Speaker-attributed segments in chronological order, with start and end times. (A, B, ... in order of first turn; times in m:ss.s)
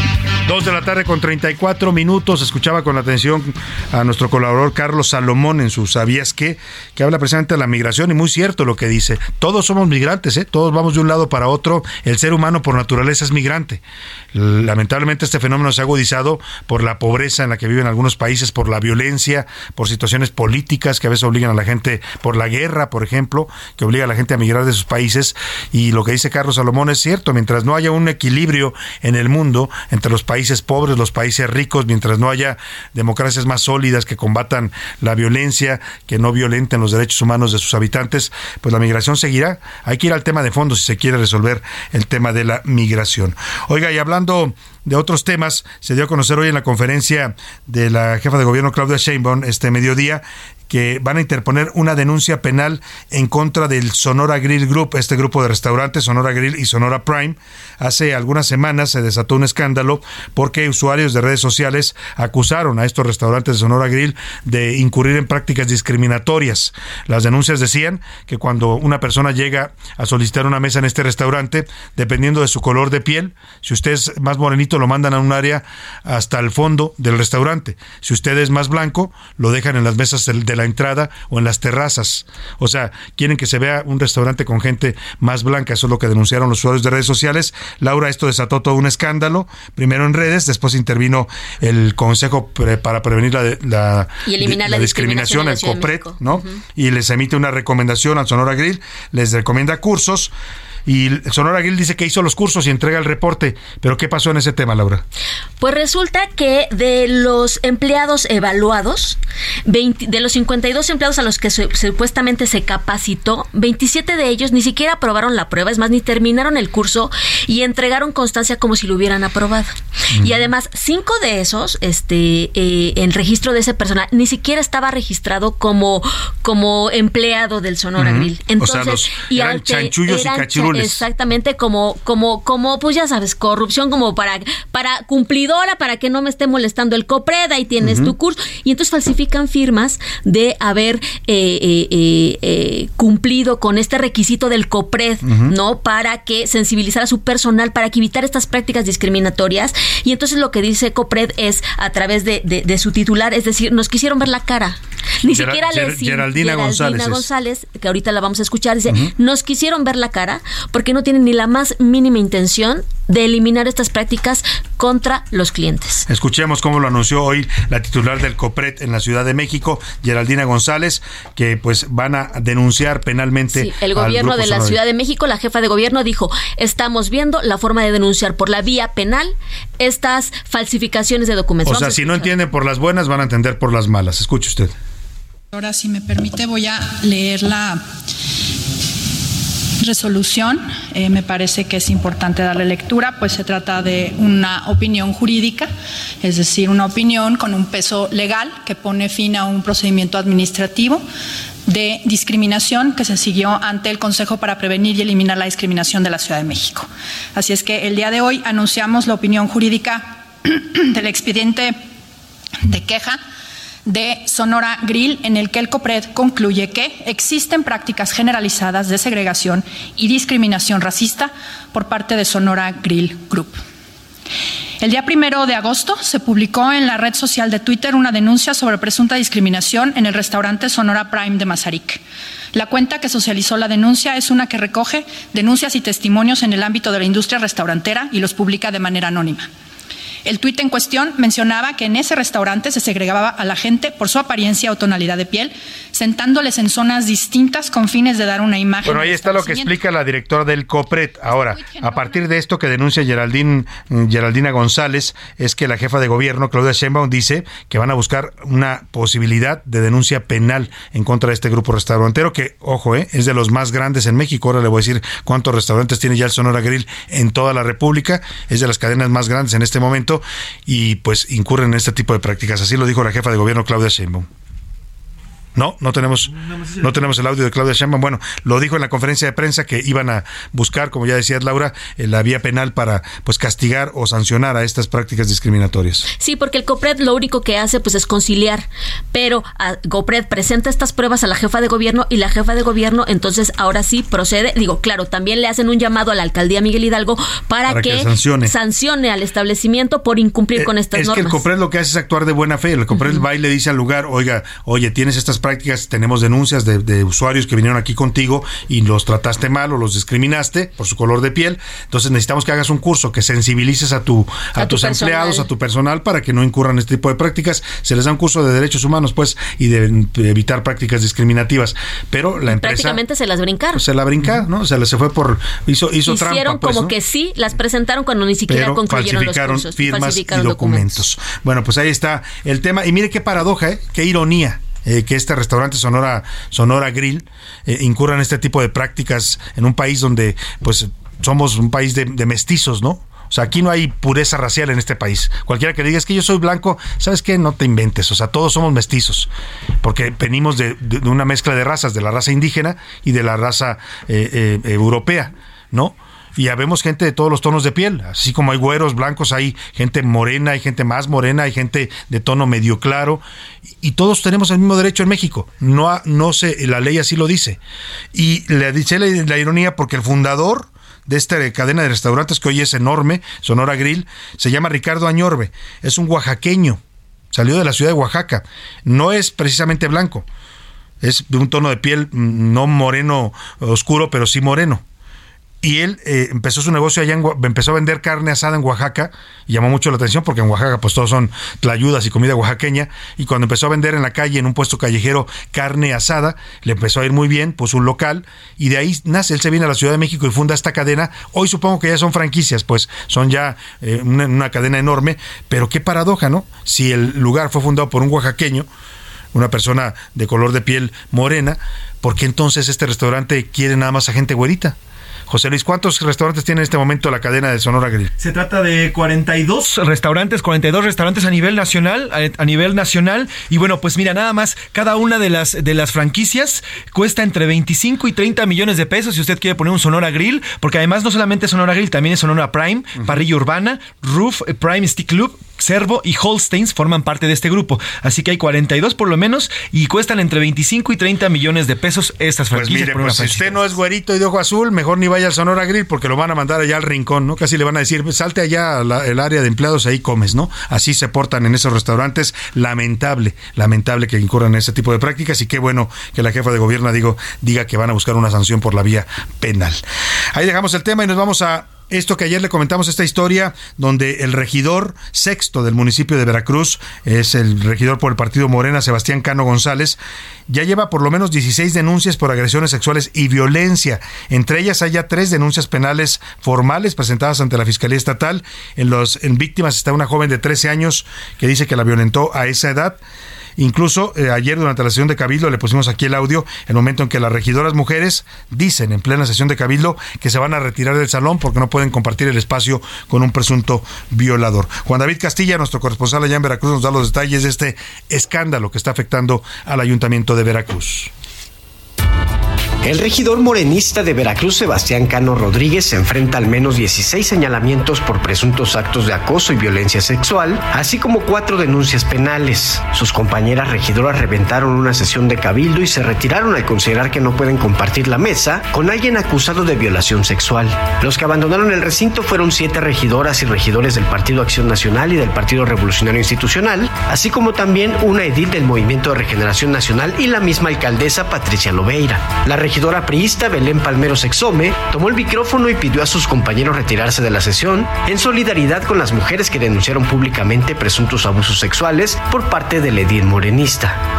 0:00.5-0:13.8 A
0:14.3-1:40.3 A
1:34.3-1:36.6 B
1:40.9-1:45.0 A
1:45.6-2:46.1 B
2:00.1-2:00.5 A
2:08.0-2:11.0 A
2:17.8-2:18.1 A
2:25.2-2:25.6 A
2:35.3-2:37.3 A
2:46.1-2:54.8 A
2:53.6-3:02.3 B
3:01.6-3:04.7 A
3:05.5-3:07.8 C
3:09.8-3:15.7 C
3:16.2-3:21.0 C
3:21.7-3:31.8 C
3:32.6-3:33.2 C
3:33.9-3:43.6 C
3:44.8-3:52.0 C
3:52.5-3:59.5 C
4:00.2-4:09.7 C
4:08.8-4:34.3 A
4:11.4-4:12.2 C
4:35.6-4:46.1 A
4:36.3-4:37.0 D
4:46.2-5:01.4 B
4:57.7-4:58.5 A
5:00.6-5:23.0 A
5:14.6-5:15.5 B
5:22.5-5:23.8 B
5:23.7-5:26.9 A
5:26.1-5:31.0 B
5:28.5-5:49.3 A
5:49.8-6:03.2 A
6:03.8-6:07.6 A
6:08.1-6:16.8 A
6:17.3-6:20.3 A
6:21.0-6:24.8 A
6:25.6-6:48.7 A
6:49.3-6:54.8 A
6:55.3-6:58.1 A
6:58.2-7:23.6 D
7:22.5-7:39.8 A
7:40.3-7:50.0 A
7:50.5-8:03.0 A
8:03.6-8:21.1 A
8:22.8-9:04.0 E